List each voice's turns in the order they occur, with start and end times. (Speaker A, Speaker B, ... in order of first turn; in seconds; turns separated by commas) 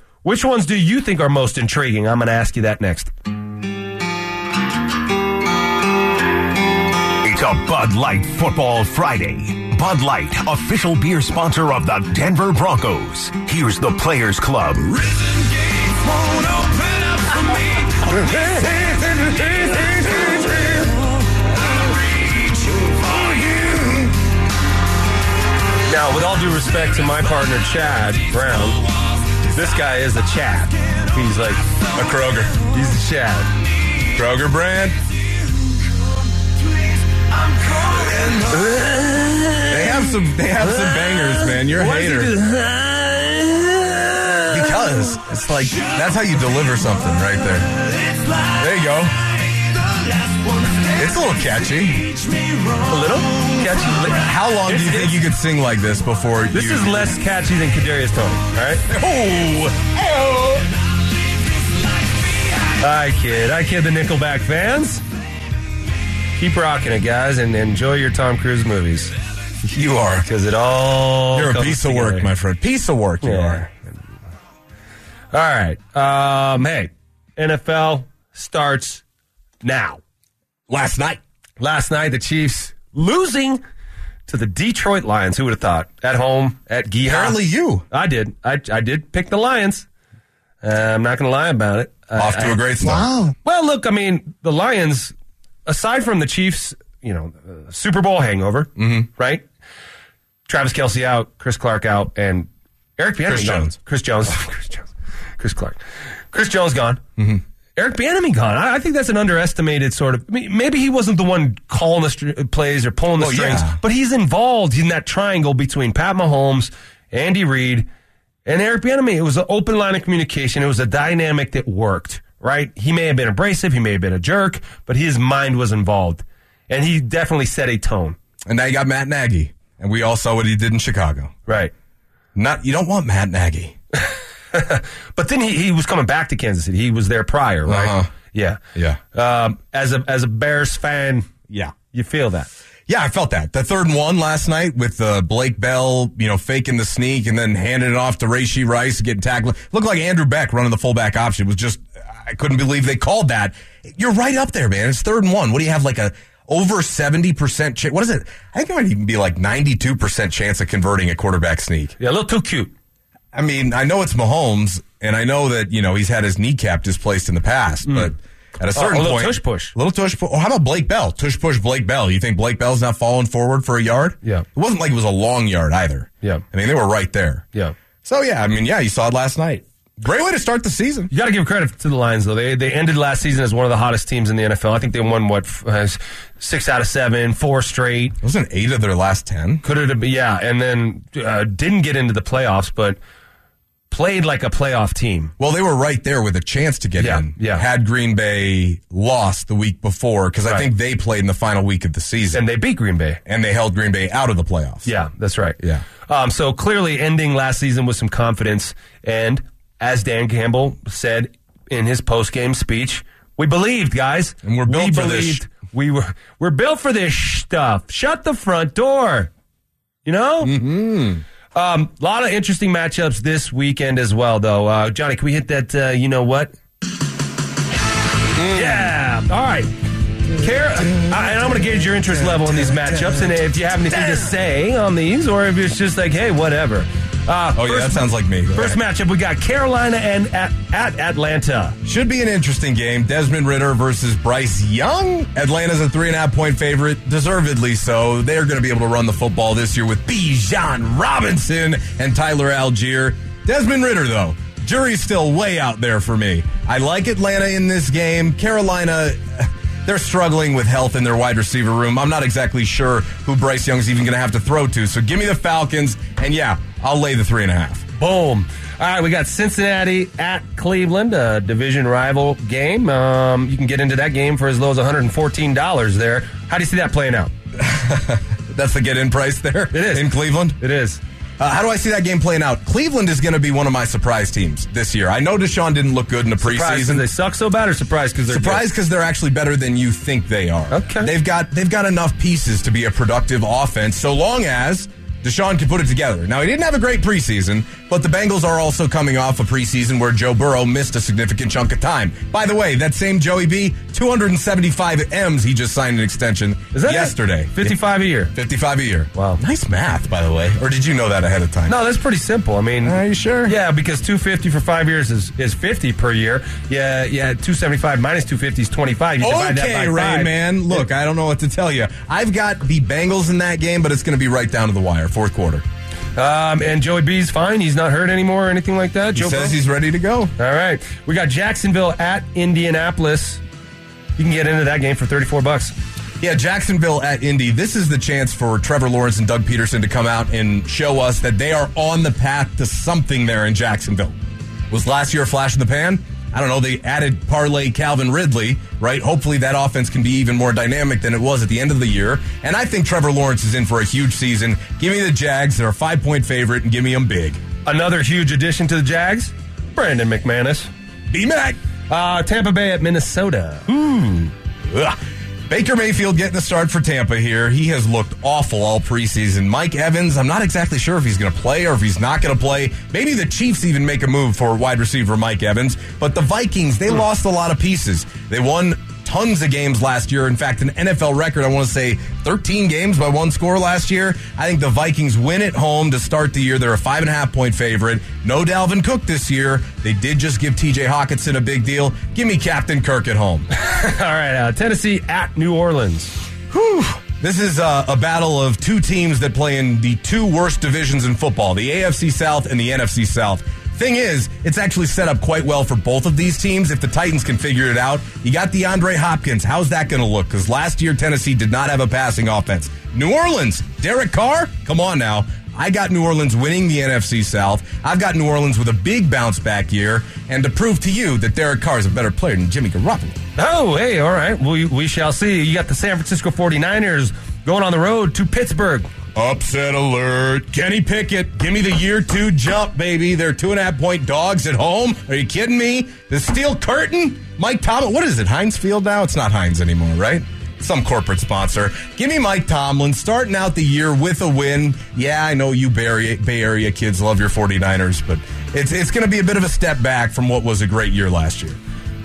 Speaker A: 0.2-3.1, Speaker B: 7.2-17.5, Speaker A: 18.2-21.0, Speaker A: 22.7-23.8, Speaker A: 25.9-28.8, Speaker A: 29.4-31.7, Speaker C: 31.9-32.6, Speaker A: 32.6-33.5, Speaker C: 34.1-35.0, Speaker A: 37.2-44.9, Speaker C: 39.7-42.3, Speaker C: 44.5-47.7, Speaker C: 48.5-49.3, Speaker A: 50.4-50.8, Speaker C: 50.9-52.2, Speaker A: 52.7-55.2, Speaker C: 54.1-57.1, Speaker A: 56.5-58.9, Speaker C: 58.9-60.7, Speaker A: 62.8-65.0, Speaker A: 66.4-69.1, Speaker C: 69.6-70.3, Speaker A: 70.2-72.3, Speaker C: 71.3-73.7, Speaker A: 73.2-73.7, Speaker A: 75.3-79.0, Speaker A: 79.6-80.0, Speaker C: 80.7-81.2, Speaker A: 81.6-83.6, Speaker A: 84.3-87.4, Speaker C: 87.1-87.9, Speaker A: 87.9-89.9, Speaker A: 90.6-95.1, Speaker C: 92.2-93.3, Speaker A: 95.7-99.5, Speaker C: 98.8-99.1, Speaker A: 100.5-105.8, Speaker C: 103.3-103.7, Speaker A: 106.3-107.0, Speaker A: 107.8-117.9, Speaker C: 113.2-113.8, Speaker A: 118.5-128.2, Speaker C: 128.4-131.3, Speaker A: 131.5-131.7, Speaker C: 132.3-133.8, Speaker A: 134.0-138.6, Speaker C: 137.7-138.1, Speaker A: 139.1-141.3, Speaker C: 141.5-141.7, Speaker A: 141.8-142.5, Speaker C: 142.9-162.0, Speaker A: 162.0-162.7, Speaker C: 163.3-177.5, Speaker A: 167.9-168.1, Speaker A: 168.7-169.8, Speaker C: 178.0-181.1, Speaker A: 181.1-188.2, Speaker C: 188.2-189.6, Speaker A: 189.6-193.0, Speaker A: 193.9-195.3, Speaker C: 195.4-202.4, Speaker A: 197.0-197.7, Speaker A: 202.3-203.2, Speaker C: 203.2-204.9, Speaker A: 204.8-219.3, Speaker C: 214.4-215.4, Speaker A: 220.1-220.6, Speaker C: 220.4-221.2, Speaker A: 221.5-226.5, Speaker C: 228.4-228.9, Speaker A: 228.4-229.7, Speaker A: 230.3-241.8, Speaker C: 230.4-234.3, Speaker C: 237.6-238.8, Speaker C: 241.8-267.9, Speaker A: 268.0-277.3, Speaker C: 277.6-280.6, Speaker A: 279.7-281.0, Speaker C: 281.4-287.1, Speaker A: 286.4-288.7, Speaker C: 288.3-307.8, Speaker A: 290.7-291.1, Speaker A: 306.7-308.3, Speaker C: 308.3-311.8, Speaker A: 309.1-309.4, Speaker A: 311.7-320.4, Speaker C: 312.8-313.6, Speaker C: 319.2-325.6, Speaker A: 326.2-329.6, Speaker C: 329.1-330.3, Speaker A: 330.4-333.4, Speaker A: 334.2-335.7, Speaker C: 336.2-344.1, Speaker C: 344.7-357.4, Speaker A: 357.6-360.7, Speaker C: 361.1-361.6, Speaker A: 361.9-364.3, Speaker C: 364.7-393.5, Speaker A: 393.5-396.1, Speaker C: 396.5-423.2, Speaker A: 423.4-428.9, Speaker C: 429.1-451.6